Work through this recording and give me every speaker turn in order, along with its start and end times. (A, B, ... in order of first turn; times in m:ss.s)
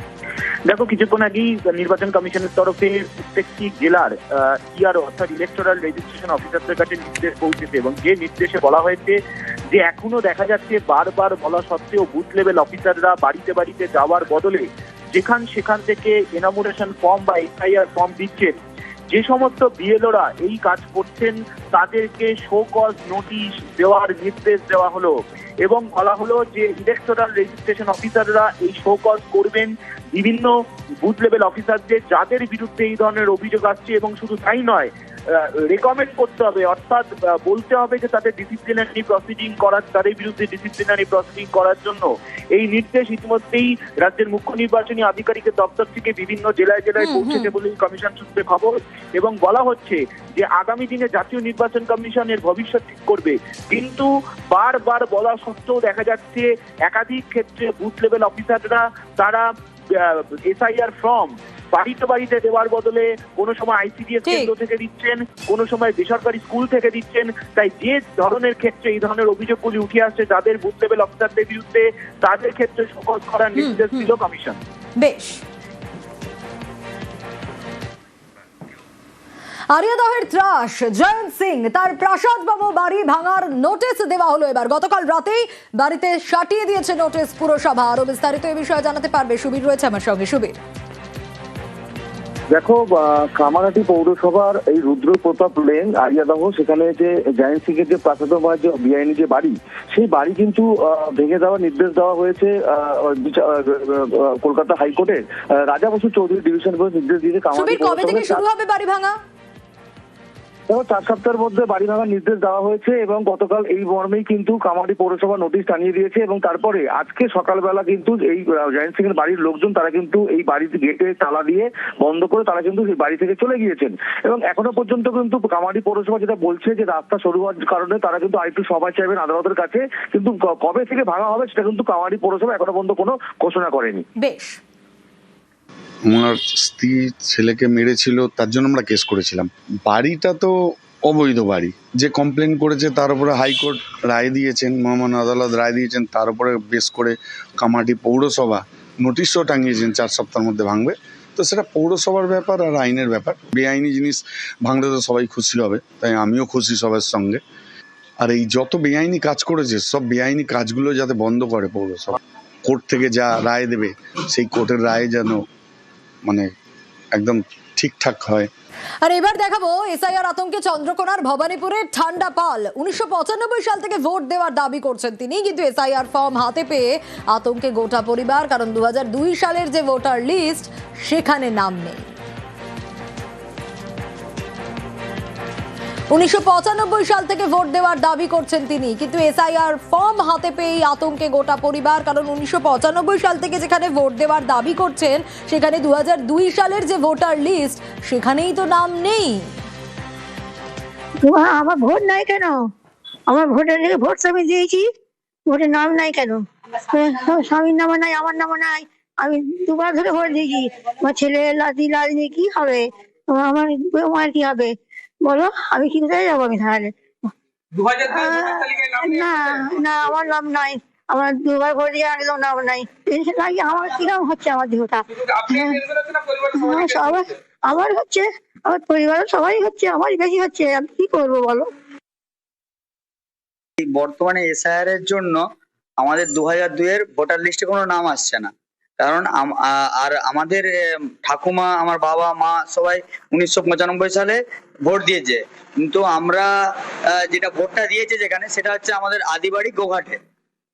0:00.6-0:18.6 A
0:19.1-1:14.6 A
0:47.0-0:47.5 B
1:04.2-1:04.5 B
1:13.6-1:14.1 B
1:15.0-1:15.4 B
1:19.7-1:30.6 B
1:32.5-1:48.4 C
1:47.5-1:49.2 B
1:50.7-2:14.0 C
2:14.2-2:14.6 B
2:16.0-2:37.4 D
2:38.2-2:45.4 D
2:46.2-2:46.5 D
2:47.1-2:48.5 D
2:49.0-3:02.1 B
3:06.1-3:19.5 B
3:21.2-3:22.6 E
3:23.3-3:24.8 E
3:25.5-3:34.7 E
3:35.2-3:36.9 E
3:38.1-3:45.8 E
3:46.5-3:51.7 E
3:53.8-3:55.4 F
3:56.0-4:06.5 F
4:07.1-4:10.2 F